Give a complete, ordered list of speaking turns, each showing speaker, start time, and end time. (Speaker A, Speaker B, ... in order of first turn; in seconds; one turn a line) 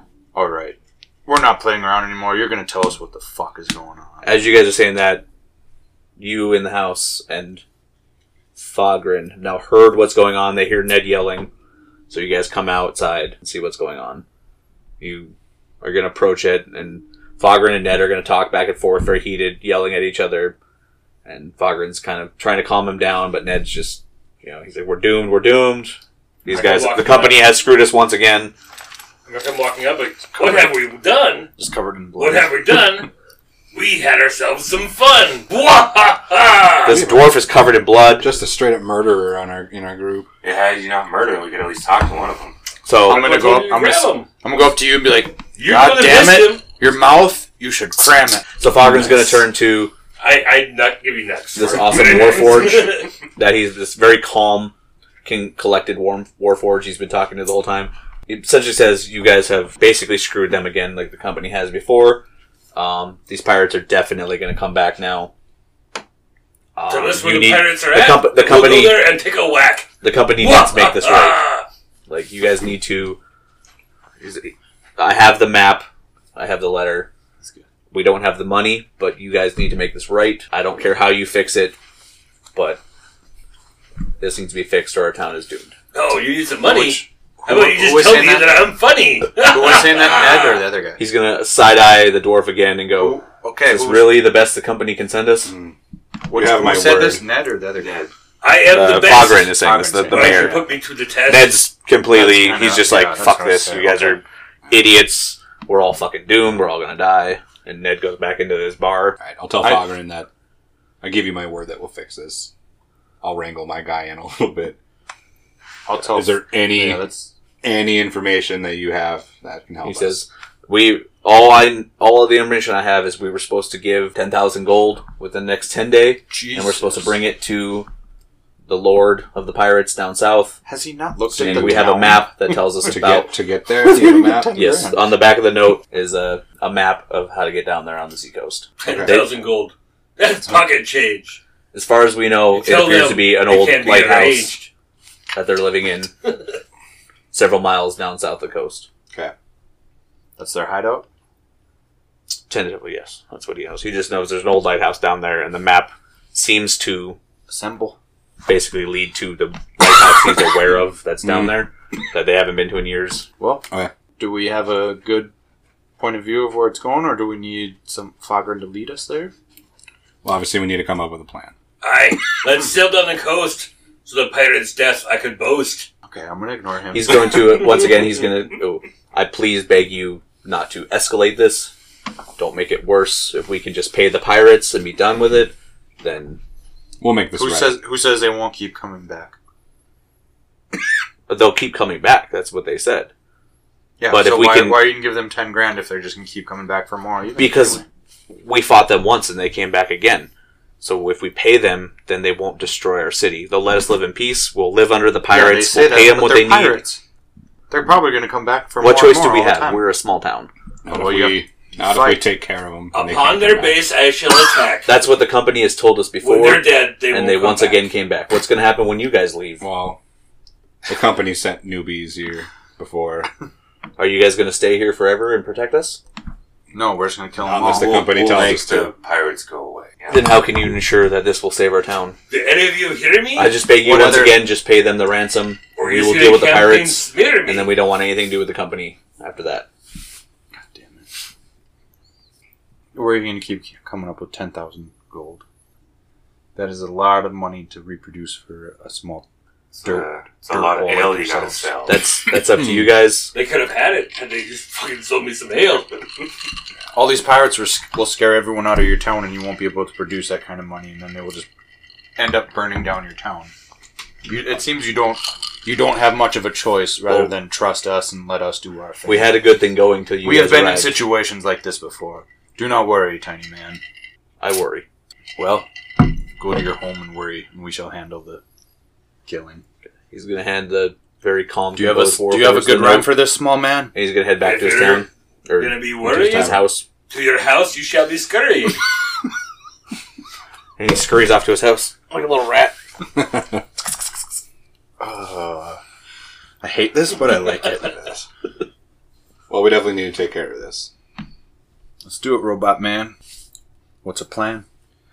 Speaker A: 0.3-4.3
Speaker B: 4.2-5.2
Speaker B: 6.2-7.6
Speaker B: 8.6-11.5
Speaker B: 12.1-14.2
Speaker B: 15.0-20.6
Speaker B: 21.2-28.5
Speaker C: 26.5-27.4
Speaker C: 29.3-31.5
Speaker A: 31.6-32.8
Speaker C: 32.2-33.1
Speaker C: 33.7-37.0
Speaker B: 36.9-38.3
Speaker D: 36.9-37.5
Speaker D: 38.2-40.3
Speaker E: 40.4-42.6
Speaker B: 42.9-43.2
Speaker A: 43.0-49.4
Speaker C: 43.1-44.3
Speaker C: 45.6-46.6
Speaker B: 48.6-49.9
Speaker C: 50.2-53.1
Speaker B: 51.5-65.3
Speaker B: 66.8-69.1
Speaker C: 66.9-71.7
Speaker B: 70.0-71.4
Speaker B: 72.1-73.2
Speaker B: 74.2-77.1
Speaker B: 77.9-81.8
Speaker B: 82.5-82.8
Speaker B: 84.2-85.7
Speaker C: 85.9-90.7
Speaker D: 86.7-87.1
Speaker A: 87.4-88.7
Speaker A: 89.4-91.0
Speaker B: 91.0-95.5
Speaker A: 93.0-94.3
Speaker D: 95.5-95.8
Speaker A: 96.3-98.0
Speaker D: 96.3-97.2
Speaker E: 97.8-98.1
Speaker C: 98.4-99.5
Speaker B: 98.7-100.7
Speaker A: 99.0-100.7
Speaker C: 100.1-101.7
Speaker B: 101.3-109.2
Speaker A: 102.1-104.2
Speaker D: 109.2-110.3
Speaker D: 111.0-112.5
Speaker D: 113.2-114.8
Speaker A: 115.9-117.3
Speaker D: 116.1-117.0
Speaker D: 117.6-120.2
Speaker B: 119.8-127.9
Speaker A: 126.3-127.2
Speaker B: 128.7-130.6
Speaker A: 130.7-132.3
Speaker B: 131.3-133.3
Speaker D: 131.4-132.2
Speaker D: 132.9-134.6
Speaker A: 133.8-135.1
Speaker B: 134.5-139.3
Speaker C: 138.8-141.4
Speaker D: 138.8-139.2
Speaker B: 141.7-144.6
Speaker C: 142.5-144.7
Speaker B: 145.3-146.4
Speaker B: 147.3-148.9
Speaker A: 150.4-151.1
Speaker B: 152.5-157.2
Speaker A: 157.5-158.0
Speaker B: 158.5-163.3
Speaker D: 161.2-161.6
Speaker A: 163.4-165.3
Speaker A: 166.0-169.3
Speaker D: 170.2-171.5
Speaker C: 171.8-175.9
Speaker A: 176.1-177.4
Speaker B: 176.9-181.7
Speaker B: 182.4-186.4
Speaker D: 187.0-187.8
Speaker A: 187.4-189.3
Speaker B: 191.3-193.1
Speaker A: 194.0-197.9
Speaker B: 194.1-194.9
Speaker B: 197.4-200.3
Speaker B: 200.8-206.8
Speaker A: 205.3-207.0
Speaker A: 207.7-209.8
Speaker B: 208.8-210.5
Speaker D: 210.8-213.8
Speaker A: 210.9-212.2
Speaker C: 212.9-215.0
Speaker B: 214.8-219.6
Speaker C: 216.2-217.9
Speaker D: 219.6-220.0
Speaker D: 220.9-223.3
Speaker B: 224.0-226.0
Speaker A: 226.7-228.2
Speaker D: 227.4-228.9
Speaker E: 227.6-230.4
Speaker B: 230.1-232.2
Speaker C: 232.3-233.6
Speaker B: 233.3-239.7
Speaker A: 233.7-234.5
Speaker C: 235.8-237.8
Speaker A: 240.6-241.1
Speaker A: 242.9-245.4
Speaker A: 246.6-249.2
Speaker E: 249.8-252.0
Speaker A: 249.8-251.7
Speaker B: 251.9-253.3
Speaker D: 252.5-252.8
Speaker C: 253.3-256.1
Speaker A: 256.9-261.5
Speaker A: 262.2-263.5
Speaker A: 264.2-269.5
Speaker B: 267.1-267.3
Speaker B: 269.1-271.0
Speaker A: 270.2-273.8
Speaker B: 274.4-274.9
Speaker A: 275.4-278.4
Speaker A: 279.3-279.6
Speaker B: 280.1-283.3
Speaker A: 281.7-283.9
Speaker B: 283.9-286.8
Speaker C: 284.4-285.1
Speaker C: 285.6-288.8
Speaker D: 286.0-286.6
Speaker B: 290.8-292.7
Speaker D: 293.2-293.6
Speaker A: 295.0-295.8
Speaker A: 296.6-298.2
Speaker D: 299.5-300.9
Speaker A: 302.0-303.1
Speaker A: 304.0-304.7